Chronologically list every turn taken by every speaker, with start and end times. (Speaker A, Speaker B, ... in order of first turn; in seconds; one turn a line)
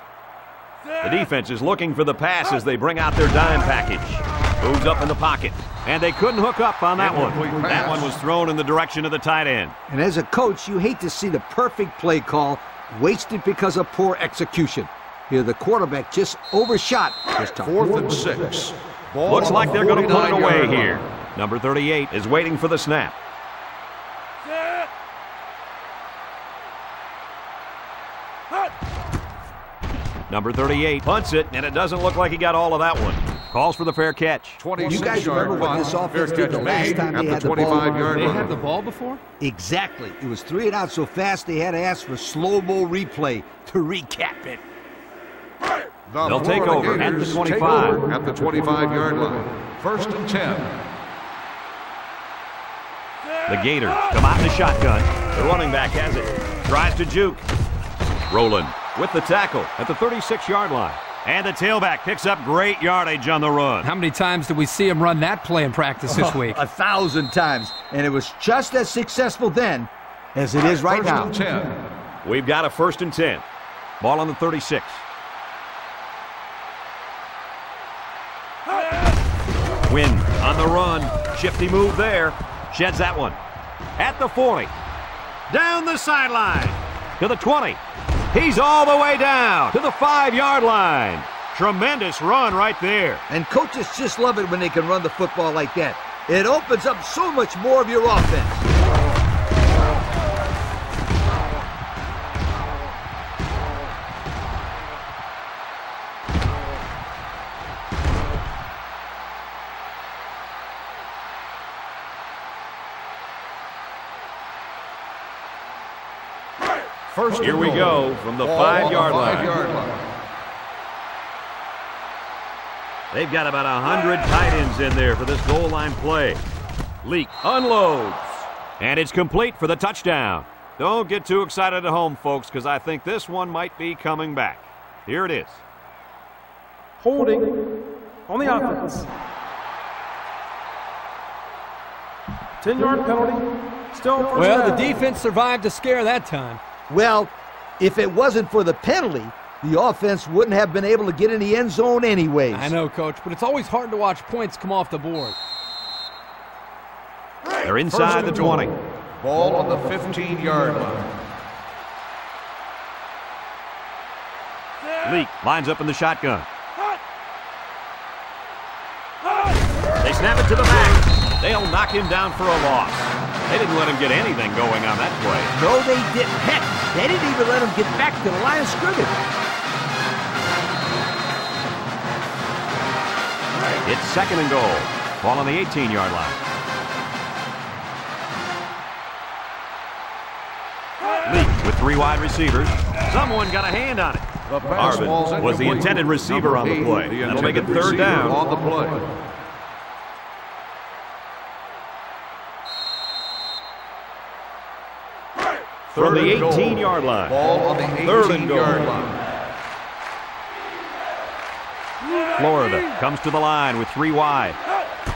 Speaker A: 1.0-9.7
Speaker B: 7.0-8.1
Speaker C: 9.9-17.7
Speaker B: 17.6-21.0
Speaker A: 19.3-23.1
Speaker A: 30.3-34.6
Speaker B: 34.6-38.5
Speaker C: 34.8-38.2
Speaker D: 38.0-39.2
Speaker C: 39.4-44.6
Speaker B: 46.1-50.8
Speaker A: 46.2-48.0
Speaker A: 53.5-57.4
Speaker A: 58.3-63.9
Speaker D: 63.8-66.6
Speaker C: 66.0-71.3
Speaker B: 70.9-71.9
Speaker A: 72.2-73.4
Speaker A: 74.0-75.0
Speaker A: 79.9-83.4
Speaker A: 84.0-84.7
Speaker A: 85.5-87.8
Speaker A: 88.3-93.2
Speaker C: 93.3-98.6
Speaker B: 117.1-120.1
Speaker A: 117.4-119.6
Speaker A: 123.1-126.4
Speaker A: 127.0-135.6
Speaker E: 137.0-139.1
Speaker E: 142.6-145.0
Speaker D: 144.3-146.6
Speaker C: 146.9-152.7
Speaker D: 152.5-155.3
Speaker A: 157.6-158.7
Speaker B: 157.9-158.7
Speaker B: 159.2-161.2
Speaker A: 165.0-166.5
Speaker A: 170.0-175.5
Speaker C: 175.5-179.1
Speaker A: 183.8-186.4
Speaker A: 191.2-198.4
Speaker B: 194.5-199.2
Speaker B: 205.9-209.2
Speaker A: 205.9-207.4
Speaker A: 208.0-208.9
Speaker A: 212.3-214.6